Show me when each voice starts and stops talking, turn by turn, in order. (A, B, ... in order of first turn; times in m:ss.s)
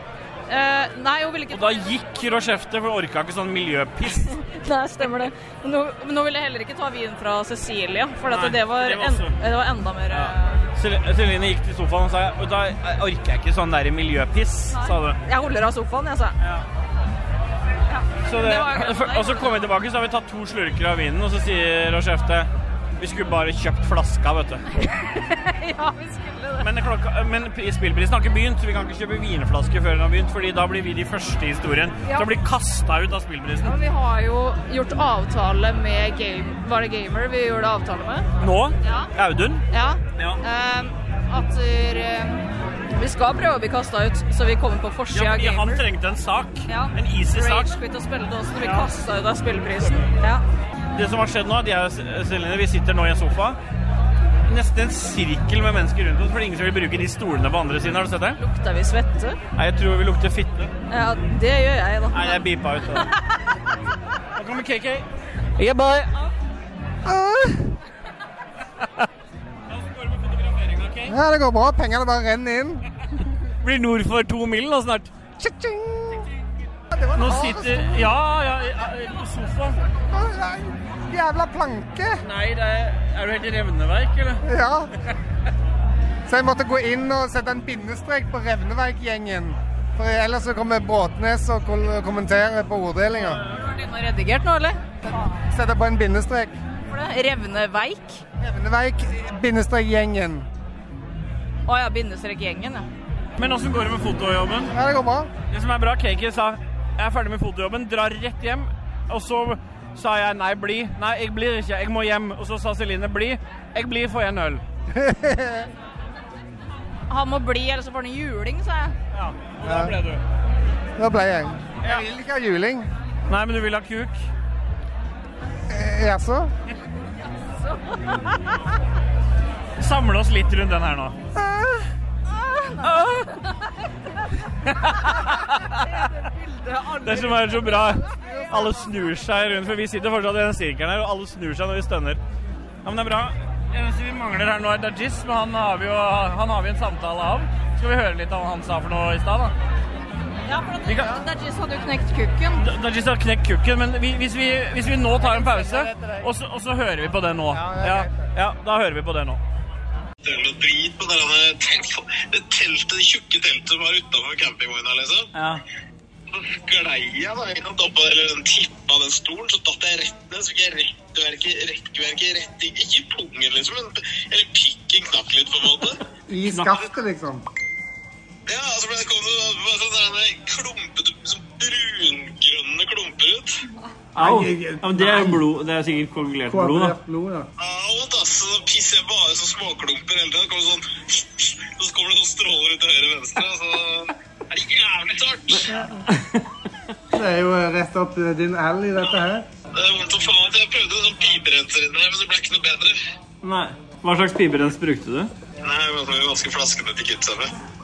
0:00.5-0:02.6 A
0:01.5-0:04.3 B
0:04.2-0:10.7 A
0:08.3-0:09.4 B
0:10.1-0:15.2 B
0:14.7-0:16.4 A
0:16.4-0:16.6 B
0:17.9-0:19.7 A
0:18.2-0:24.7 B
0:24.8-0:26.7 A
0:26.6-0:33.8 B
0:32.0-0:32.4 A
0:33.6-0:38.3 A
0:38.4-0:40.4 B
0:38.8-0:39.1 A
0:39.7-0:45.8 A
0:45.1-0:47.8 B
0:46.7-0:50.4 A
0:48.6-0:48.9 B
0:50.9-0:53.6 B
0:54.5-0:58.4 B
0:58.4-0:59.4 A
0:59.6-1:00.7 B
1:00.9-1:02.4 A
1:02.1-1:03.1 B
1:04.4-1:05.0 B
1:05.6-1:06.1 B
1:07.1-1:07.6 C
1:09.7-1:11.2 B
1:11.1-1:12.8 C
1:13.6-1:15.1 B
1:15.4-1:16.2 C
1:16.9-1:18.1 C
1:17.1-1:19.8 B
1:20.1-1:22.2 C
1:22.2-1:24.4 B
1:24.5-1:24.9 C
1:26.3-1:33.4 C
1:33.4-1:35.4 A
1:35.5-1:36.5 C
1:36.8-1:38.2 A
1:38.4-1:40.5 C
1:41.7-1:42.9 A
1:43.4-1:44.7 B
1:44.7-1:45.3 C
1:45.5-1:54.6 B
1:55.0-1:55.7 C
1:57.1-1:59.0 A
1:59.1-2:00.2 B
1:59.6-2:00.0 C
2:01.0-2:02.9 C
2:03.3-2:04.2 B
2:05.7-2:06.5 C
2:07.6-2:08.5 A
2:09.8-2:11.2 B
2:12.4-2:13.8 A
2:12.8-2:13.1 B
2:14.6-2:15.9 B
2:14.8-2:19.1 A
2:17.0-2:22.2 B
2:22.8-2:29.6 B
2:30.4-2:32.6 A
2:30.8-2:31.2 B
2:32.6-2:39.4 B
2:35.2-2:36.3 C
2:37.5-2:38.3 C
2:40.2-2:45.3 D
2:45.3-2:45.6 B
2:46.3-2:56.0 D
2:56.3-2:57.4 C
2:58.5-3:03.6 D
3:04.2-3:07.0 B
3:04.2-3:05.4 C
3:06.5-3:07.5 C
3:07.6-3:15.8 D
3:15.5-3:16.5 B
3:17.2-3:19.4 C
3:19.7-3:23.0 D
3:23.4-3:25.3 B
3:25.6-3:27.5 D